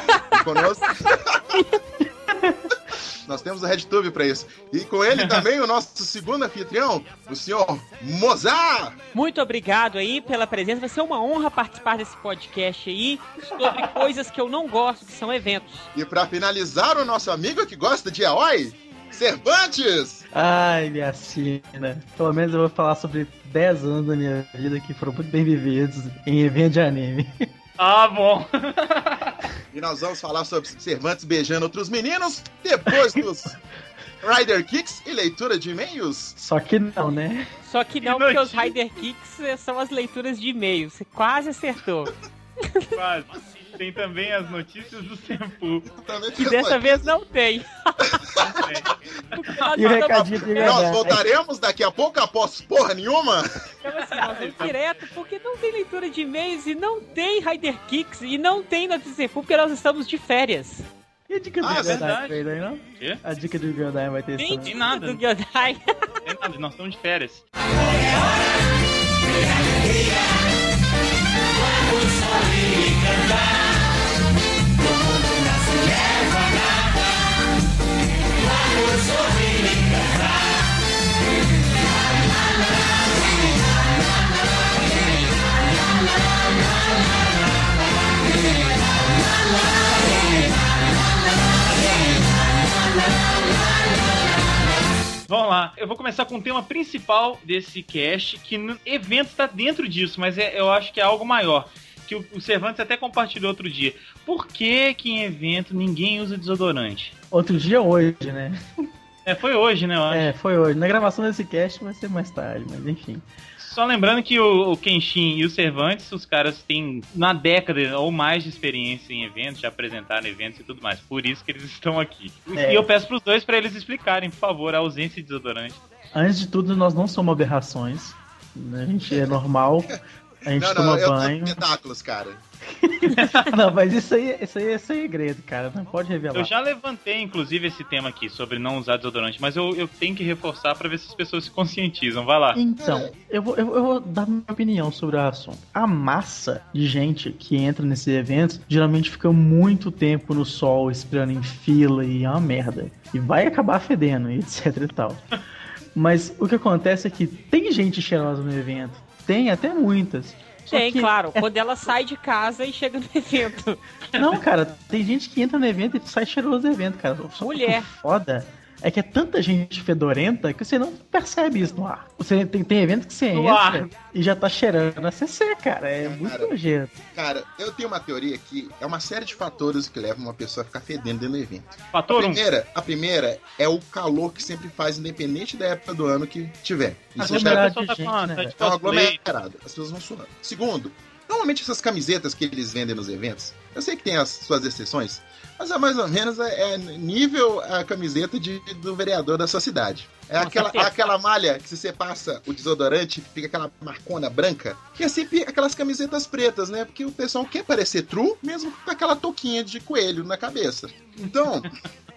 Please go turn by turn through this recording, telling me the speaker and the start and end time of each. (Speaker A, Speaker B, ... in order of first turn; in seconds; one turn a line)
Speaker A: 0.3-1.6
Speaker B: 2.3-2.7
Speaker A: 3.3-9.0
Speaker C: 5.1-5.4
Speaker D: 9.1-15.9
Speaker A: 15.9-20.2
Speaker B: 20.3-27.3
Speaker C: 27.8-29.4
Speaker A: 29.7-33.6
Speaker A: 34.2-36.4
Speaker B: 36.4-37.5
Speaker D: 37.6-42.9
Speaker C: 38.0-38.7
Speaker C: 43.0-45.9
Speaker A: 45.9-47.1
Speaker D: 46.4-48.2
Speaker C: 48.4-49.7
Speaker D: 49.4-50.9
Speaker B: 49.8-51.2
Speaker A: 50.6-53.5
Speaker D: 53.8-60.9
Speaker C: 53.9-54.8
Speaker B: 61.3-64.7
Speaker A: 61.6-62.2
Speaker C: 61.7-62.4
Speaker D: 64.4-66.1
Speaker C: 64.7-65.2
Speaker C: 66.2-67.5
Speaker C: 95.3-107.2
Speaker B: 107.3-108.6
Speaker C: 109.2-110.3
Speaker B: 110.1-113.3
Speaker C: 113.6-125.8
Speaker B: 122.6-122.9
Speaker B: 126.1-131.6
Speaker A: 129.1-129.4
Speaker A: 130.5-132.4
Speaker B: 132.8-136.5
Speaker C: 136.3-142.6
Speaker B: 142.6-155.3
Speaker A: 142.8-143.1
Speaker B: 155.9-161.5
Speaker D: 160.7-163.8
Speaker B: 164.2-176.9
Speaker D: 167.4-167.9
Speaker C: 173.3-173.9
Speaker A: 176.0-176.5
Speaker A: 177.1-187.7
Speaker C: 181.9-182.4
Speaker B: 187.2-188.5
Speaker C: 187.2-189.2
Speaker A: 188.6-211.7
Speaker D: 200.4-201.1